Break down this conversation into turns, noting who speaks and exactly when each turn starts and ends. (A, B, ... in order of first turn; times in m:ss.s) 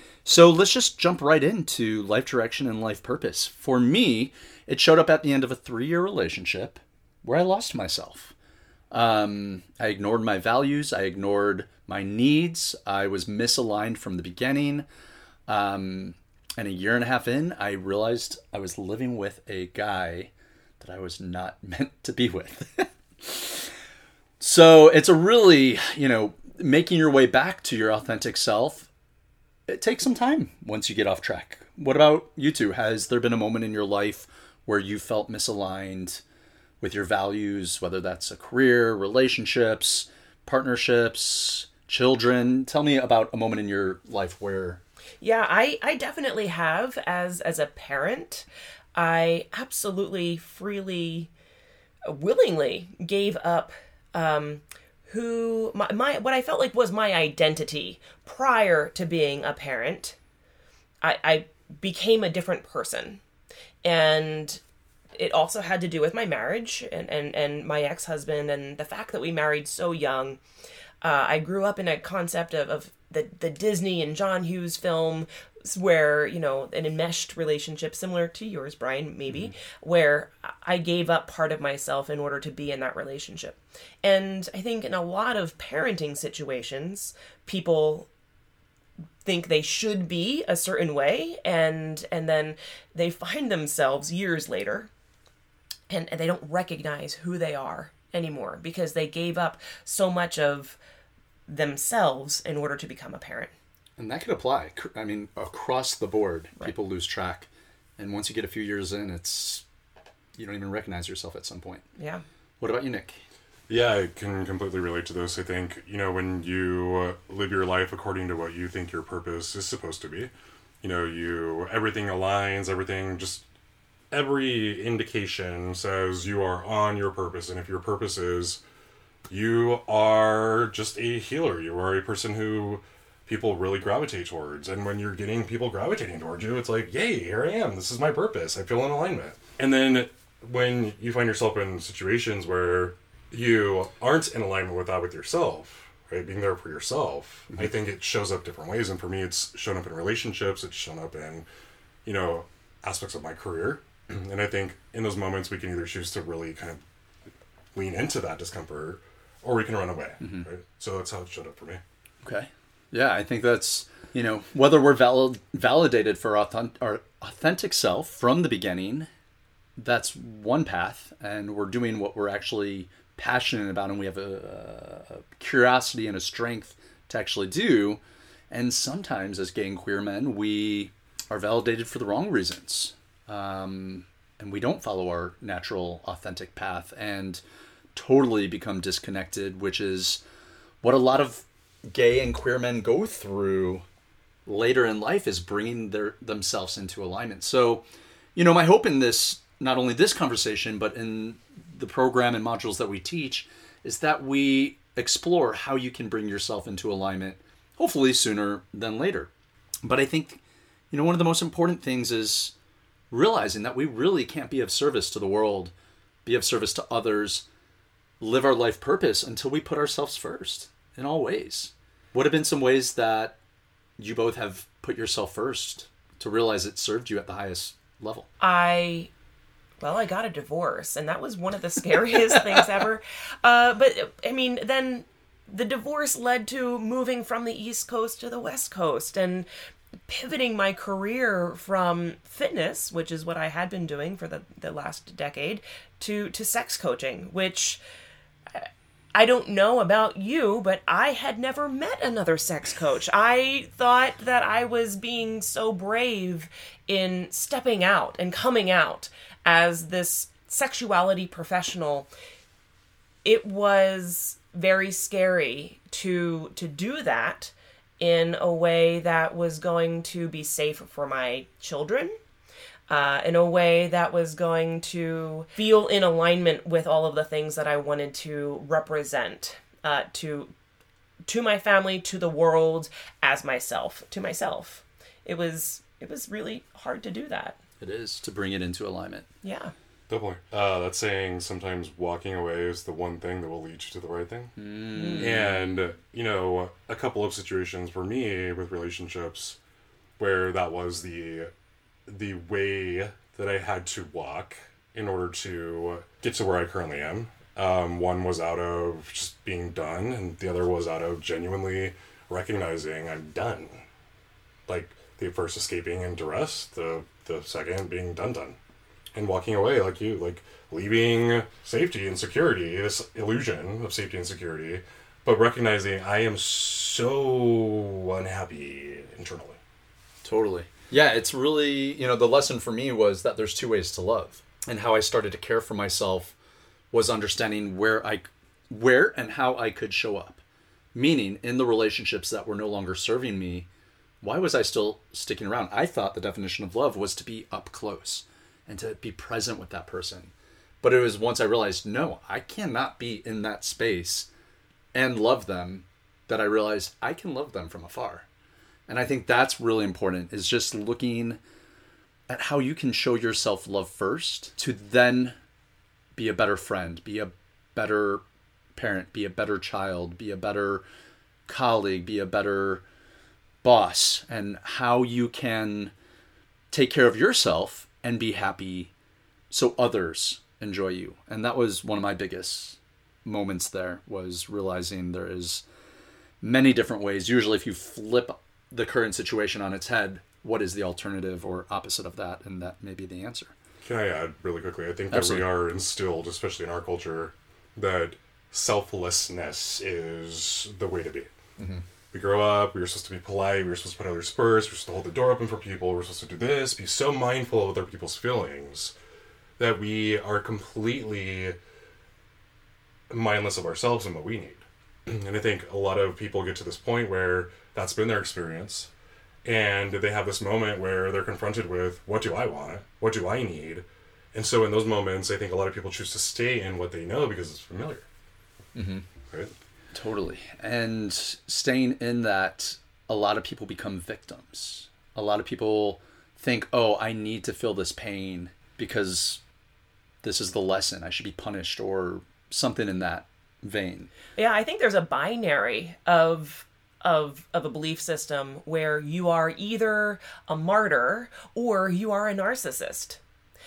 0:00.2-0:08.3 A
0:08.9-0:14.8 A
0:15.5-0:23.7 A
0:24.4-0:28.9 A
0:29.7-0:36.2 A
0:36.8-0:44.8 A
0:45.2-0:51.3 B
0:52.0-1:00.2 B
1:01.0-1:03.2 B
1:03.8-1:04.6 B
1:05.2-1:10.4 B
1:11.0-1:28.1 B
1:29.2-1:34.9 B
1:35.9-1:40.8 B
1:41.5-1:43.5 B
1:44.0-1:49.6 A
1:50.4-1:51.8 A
1:52.0-1:52.2 B
1:52.6-1:53.2 A
1:53.7-2:00.3 C
2:00.8-2:03.4 C
2:04.1-2:08.6 C
2:09.3-2:31.5 C
2:32.0-2:36.8 C
2:37.7-2:41.8 C
2:40.2-2:40.5 A
2:42.2-2:49.1 A
2:49.8-3:07.4 A
3:07.9-3:10.2 A
3:10.8-3:13.8 A
3:14.5-3:17.8 A
3:18.3-3:29.3 A
3:29.8-3:32.5 A
3:33.1-3:35.7 A
3:36.2-3:37.4 A
3:38.2-3:43.4 A
3:44.0-3:48.3 A
3:48.4-3:49.1 B
3:49.8-3:59.5 B
4:00.1-4:07.8 B
4:08.5-4:22.1 B
4:23.2-4:32.1 B
4:32.9-4:40.5 B
4:41.3-4:47.6 B
4:47.8-4:49.3 A
4:49.4-4:49.7 B
4:50.1-4:54.5 C
4:54.6-4:55.4 A
4:55.0-4:55.3 B
4:55.2-4:59.6 C
5:00.2-5:01.5 C
5:02.1-5:13.8 C
5:14.7-5:18.6 C
5:19.1-5:29.6 C
5:30.2-5:36.4 A
5:36.9-5:40.4 A
5:40.9-5:43.7 A
5:44.2-5:54.3 A
5:54.9-5:58.2 A
5:58.9-6:01.4 A
6:02.3-6:05.3 A
6:06.2-6:08.2 A
6:08.8-6:10.8 A
6:11.5-6:12.8 A
6:13.6-6:15.9 A
6:16.7-6:18.9 A
6:19.5-6:25.6 A
6:26.4-6:33.5 A
6:33.8-6:41.3 C
6:35.1-6:35.5 A
6:41.6-6:41.8 A
6:42.1-6:48.9 C
6:49.6-6:51.6 C
6:53.1-6:58.9 C
6:59.4-7:08.1 C
7:08.8-7:09.1 A
7:09.9-7:19.4 A
7:20.2-7:24.1 A
7:24.4-7:33.2 B